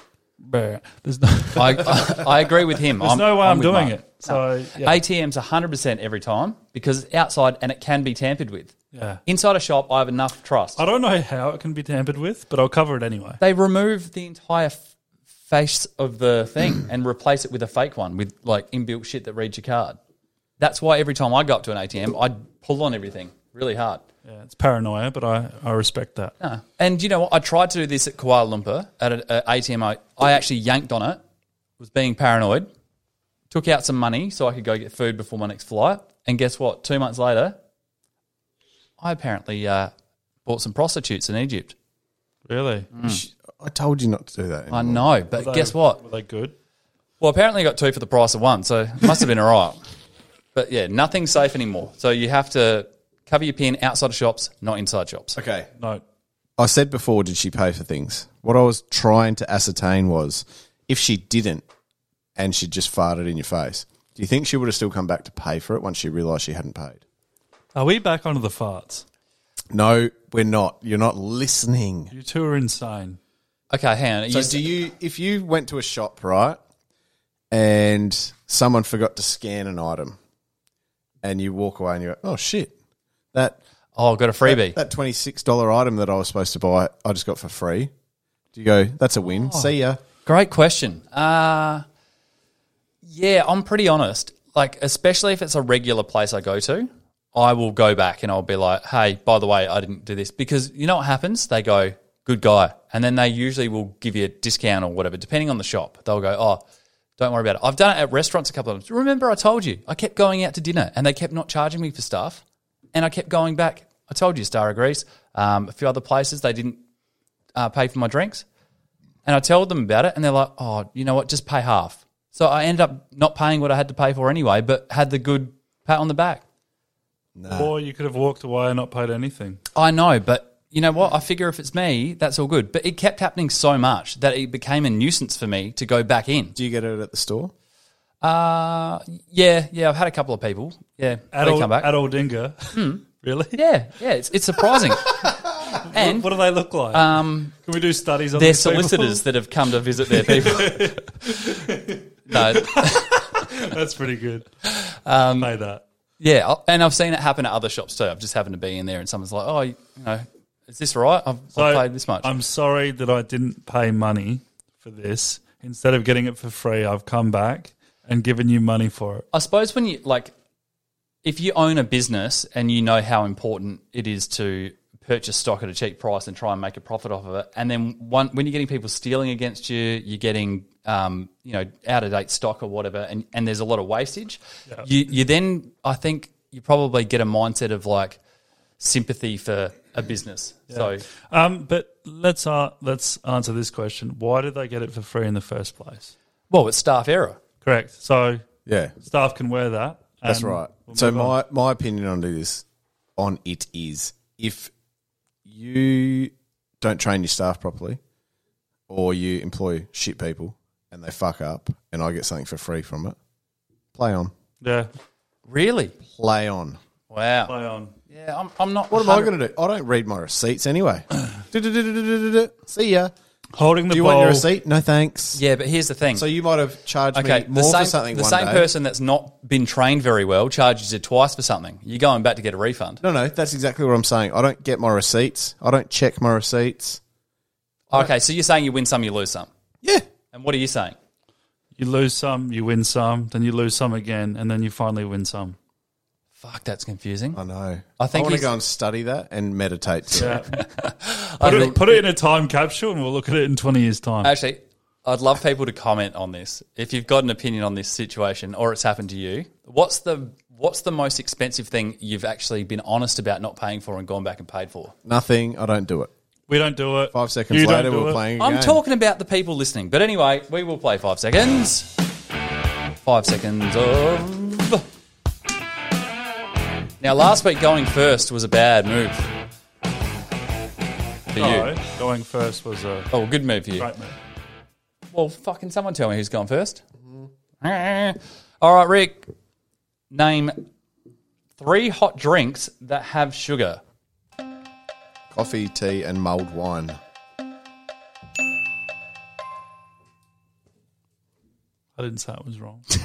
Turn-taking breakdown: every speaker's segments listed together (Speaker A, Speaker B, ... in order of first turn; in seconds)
Speaker A: 0.4-5.0, 8.9-9.2, 10.8-13.4, 24.2-26.3, 42.5-42.9, 45.4-46.5, 67.8-69.0, 72.1-73.2, 127.5-129.6, 141.3-143.6, 145.8-149.2, 150.1-154.5, 155.4-155.8, 161.6-169.3, 190.7-196.1, 197.6-198.4, 199.0-201.3, 214.6-214.9, 217.5-217.9, 223.6-224.5, 241.8-245.6, 250.2-250.6, 251.4-254.3, 266.5-268.2, 281.4-283.1, 283.8-284.2, 302.0-302.9
Speaker B: 1.6-8.7, 9.3-10.8, 13.4-14.8, 15.5-20.0, 20.6-24.0, 26.4-31.2, 31.8-32.7, 33.5-37.6, 39.0-39.9, 40.5-41.8, 42.9-43.2, 44.7-46.0, 47.2-49.8, 50.5-55.4, 73.7-74.7, 84.0-84.8, 89.4-89.7, 90.2-91.8, 93.0-106.6, 107.2-112.4, 112.9-116.8, 117.6-118.5, 119.2-126.4, 129.8-136.6, 138.2-141.9, 142.7-145.2, 145.9-146.3, 146.9-147.6, 148.3-151.0, 152.3-153.5, 154.7-155.5, 156.2-162.3, 169.3-170.3, 171.2-188.2, 188.8-191.0, 196.5-197.4, 215.5-215.9, 217.1-217.5, 218.1-219.3, 225.3-226.3, 227.1-233.0, 237.9-239.5, 240.3-241.0, 246.4-247.4, 248.0-248.5, 250.2-252.0, 254.2-264.9, 268.4-272.0, 273.0-274.9, 277.0-279.3, 281.3-281.7, 283.1-283.9, 285.1-286.8, 287.6-289.3, 290.1-290.7, 291.6-293.8
Speaker C: 43.0-45.1, 55.4-55.7, 56.6-61.6, 62.4-67.0, 69.7-72.1, 74.3-76.6, 77.5-80.2, 81.2-82.7, 83.3-83.6, 84.4-87.9, 88.5-90.0, 127.4-127.7, 136.6-137.5, 198.7-198.9, 200.2-202.7, 203.2-204.7, 205.4-208.0, 208.9-213.2, 213.9-214.3, 216.1-216.8, 218.9-223.1, 223.9-225.4, 226.1-228.7, 233.0-237.0, 247.3-250.4, 265.1-266.1, 267.1-268.8, 295.3-297.0